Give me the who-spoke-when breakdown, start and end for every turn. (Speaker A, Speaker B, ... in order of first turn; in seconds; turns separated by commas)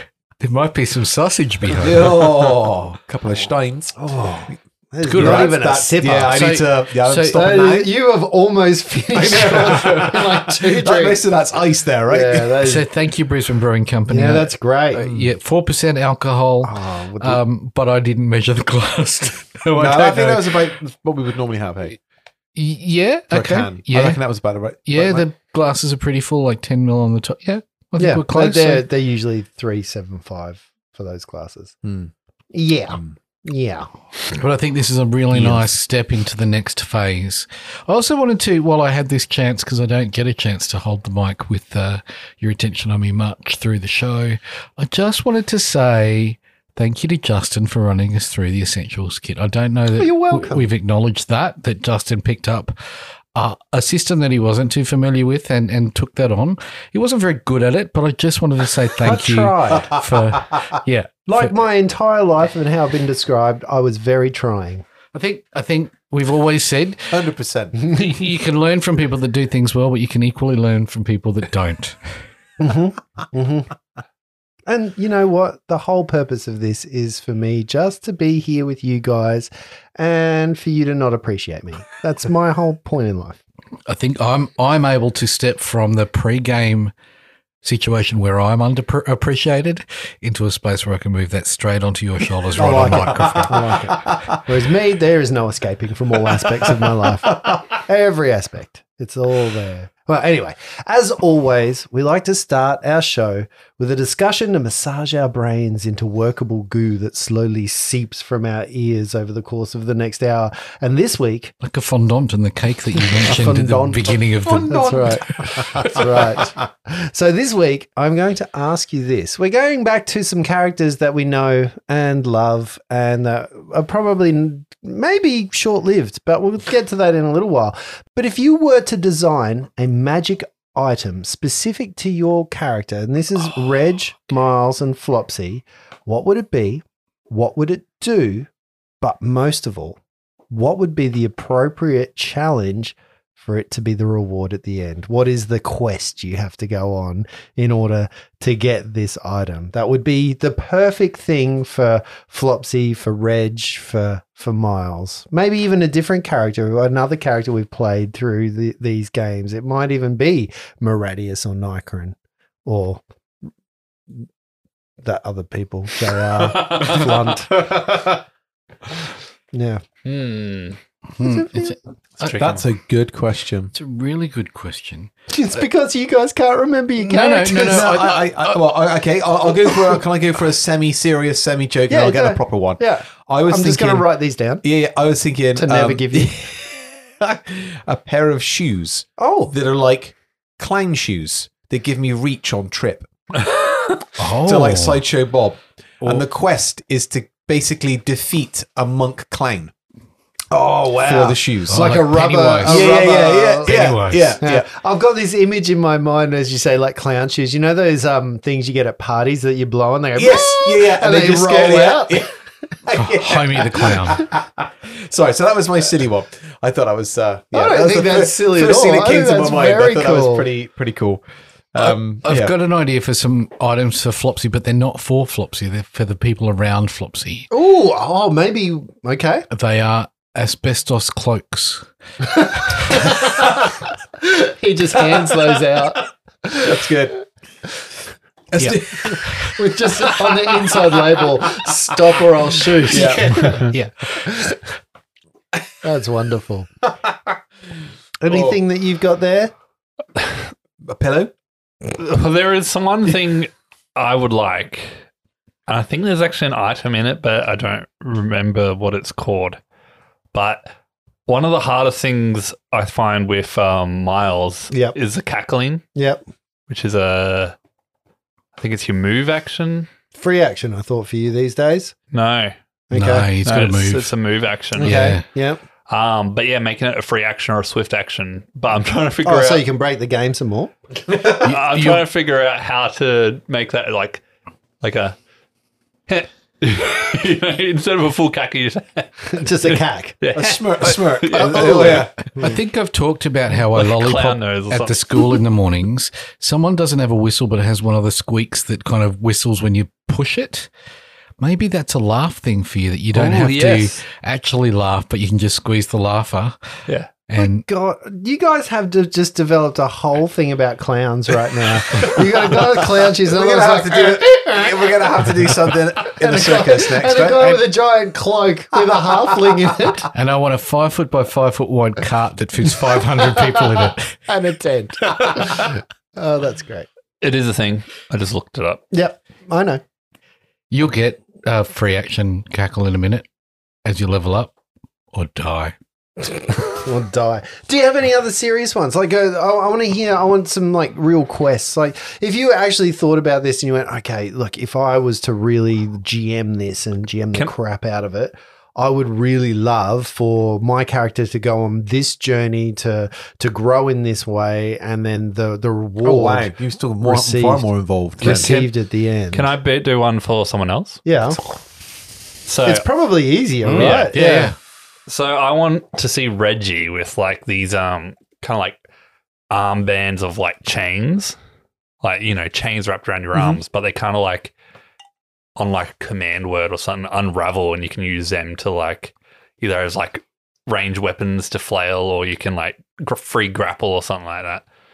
Speaker A: 0.4-2.6, Speaker B: 1.7-4.0, Speaker C: 4.0-6.6, Speaker A: 5.0-7.6, Speaker B: 5.1-7.9, Speaker C: 7.3-11.2, Speaker B: 9.1-12.7, Speaker C: 12.1-12.9, Speaker A: 12.6-20.7, Speaker C: 14.1-15.1, Speaker C: 16.6-17.4, Speaker B: 19.8-22.0, Speaker A: 22.6-24.2, Speaker B: 23.3-25.3, Speaker A: 24.9-28.9, Speaker C: 28.0-31.8, Speaker B: 31.8-32.1, Speaker C: 32.5-33.9, Speaker A: 34.4-52.8, Speaker C: 50.0-50.6, Speaker A: 53.3-61.5, Speaker C: 59.0-59.9, Speaker B: 59.7-60.4, Speaker C: 61.3-64.8, Speaker A: 65.1-67.2, Speaker B: 67.1-67.9, Speaker C: 67.8-68.2, Speaker A: 67.9-72.0, Speaker C: 72.6-73.7, Speaker C: 74.7-83.4, Speaker A: 83.9-86.9, Speaker A: 87.6-93.9, Speaker C: 92.6-111.5, Speaker B: 92.7-94.3, Speaker A: 111.6-115.0, Speaker C: 113.0-138.5, Speaker B: 114.5-116.1, Speaker C: 139.0-140.0, Speaker C: 140.5-163.0, Speaker C: 165.0-168.2, Speaker D: 166.5-167.1, Speaker C: 169.5-169.8, Speaker D: 170.1-170.8, Speaker A: 171.2-172.4, Speaker C: 171.2-171.8, Speaker D: 172.2-172.7, Speaker B: 172.4-173.7, Speaker A: 173.7-175.1, Speaker C: 175.3-178.1, Speaker A: 177.0-178.7, Speaker B: 177.6-184.1, Speaker C: 181.9-184.6, Speaker B: 184.6-193.1, Speaker C: 185.6-186.3, Speaker C: 189.2-189.5, Speaker D: 193.4-194.1, Speaker A: 194.2-195.0, Speaker B: 194.4-199.7, Speaker A: 196.0-196.3, Speaker C: 200.5-212.3, Speaker B: 201.0-202.0, Speaker A: 201.7-202.9, Speaker B: 202.6-204.7, Speaker A: 203.7-204.4, Speaker B: 210.2-221.2, Speaker A: 213.0-214.3, Speaker C: 217.5-220.5, Speaker B: 221.7-222.6, Speaker A: 221.8-227.5, Speaker C: 227.5-229.5, Speaker A: 229.5-231.9, Speaker C: 232.2-236.8, Speaker B: 235.1-235.9, Speaker B: 236.6-237.2, Speaker B: 238.5-241.6, Speaker A: 238.6-239.5, Speaker C: 239.1-244.6, Speaker B: 242.9-243.7, Speaker A: 243.2-243.9, Speaker C: 245.8-246.7, Speaker C: 248.2-249.5, Speaker B: 248.3-248.6, Speaker B: 250.8-251.3, Speaker D: 251.9-255.0, Speaker D: 255.7-259.6, Speaker D: 260.3-260.7, Speaker D: 261.3-265.8, Speaker C: 266.0-266.2, Speaker D: 266.7-267.6, Speaker D: 268.6-269.9, Speaker C: 270.1-271.9, Speaker D: 272.1-272.5, Speaker C: 272.9-273.3, Speaker A: 272.9-274.1, Speaker D: 273.4-275.0, Speaker C: 274.8-275.6, Speaker A: 274.8-275.2, Speaker D: 275.9-279.6, Speaker C: 279.2-280.7, Speaker D: 281.1-284.2, Speaker A: 281.3-282.1, Speaker D: 284.8-285.2, Speaker D: 286.1-292.1, Speaker C: 289.3-290.2, Speaker B: 290.3-292.1, Speaker C: 291.4-292.6, Speaker A: 292.4-300.7, Speaker D: 293.7-295.4, Speaker A: 301.4-306.6, Speaker C: 303.2-303.5, Speaker D: 303.2-304.0, Speaker A: 307.3-307.7, Speaker C: 307.4-320.1, Speaker B: 312.5-317.6, Speaker A: 320.1-324.2, Speaker C: 323.2-326.9, Speaker D: 327.2-328.8, Speaker C: 328.9-329.8, Speaker A: 330.7-333.3, Speaker A: 333.9-334.5, Speaker A: 335.1-335.8, Speaker C: 336.6-357.7, Speaker B: 356.0-358.6, Speaker C: 358.2-359.5, Speaker D: 358.2-358.7, Speaker D: 359.3-361.0, Speaker C: 361.1-361.4, Speaker D: 362.4-362.9, Speaker C: 362.6-364.5, Speaker D: 363.7-364.2, Speaker A: 363.7-364.6, Speaker D: 365.1-368.8, Speaker D: 369.5-371.4, Speaker D: 372.0-374.5, Speaker D: 375.6-384.6